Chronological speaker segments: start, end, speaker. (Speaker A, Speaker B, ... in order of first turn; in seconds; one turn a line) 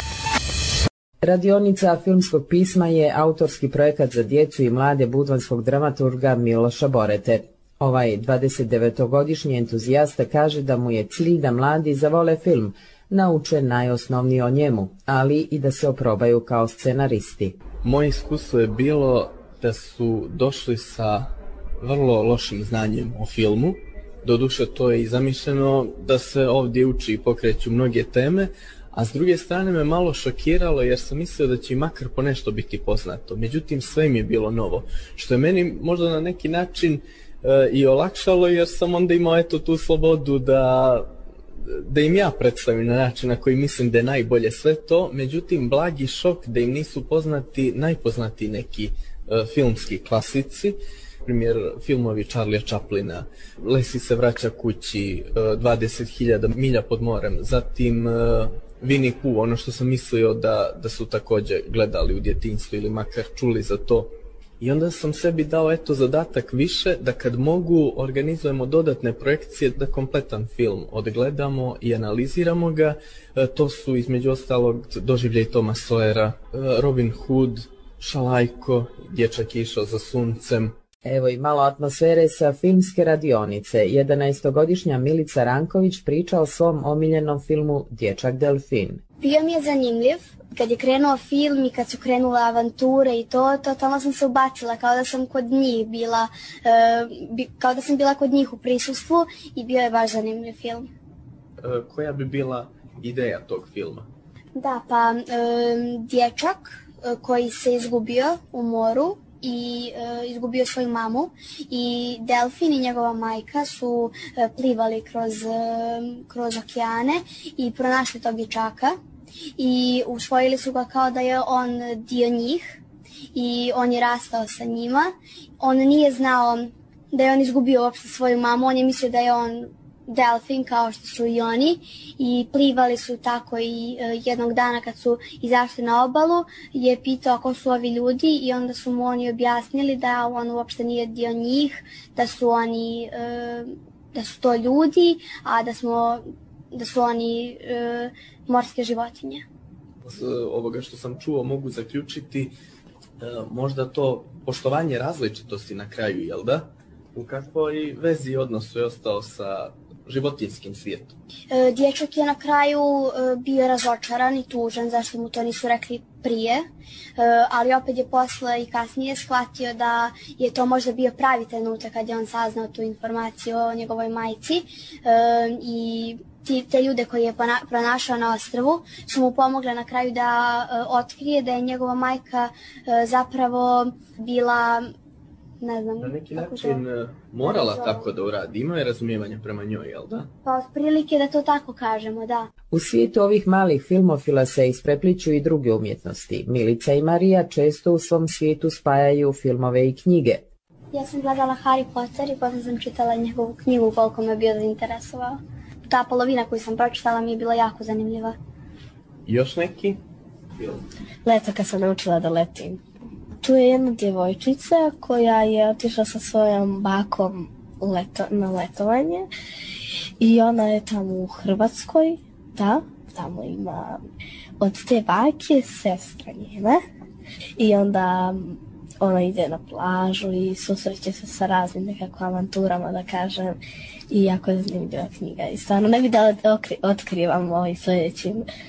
Speaker A: 1.2-17.6
Speaker B: 17.8-41.1
Speaker B: 41.7-80.7
Speaker A: 81.0-89.0
Speaker C: 89.2-100.9
Speaker B: 101.6-104.1
Speaker C: 104.5-119.0
Speaker C: 119.6-122.8
Speaker C: 123.3-149.4
Speaker B: 150.0-152.5
Speaker B: 153.2-161.2
Speaker C: 161.5-166.6
Speaker C: 167.2-184.9
Speaker C: 185.6-186.8
Speaker B: 186.0-190.3
Speaker C: 187.4-188.1
Speaker C: 190.4-192.5
Speaker A: 192.7-200.4
Speaker C: 200.9-208.3
Speaker B: 209.2-210.0
Speaker D: 211.2-212.8
Speaker D: 213.4-219.3
Speaker D: 220.2-224.0
Speaker D: 224.6-226.8
Speaker D: 227.6-233.6
Speaker D: 234.1-238.4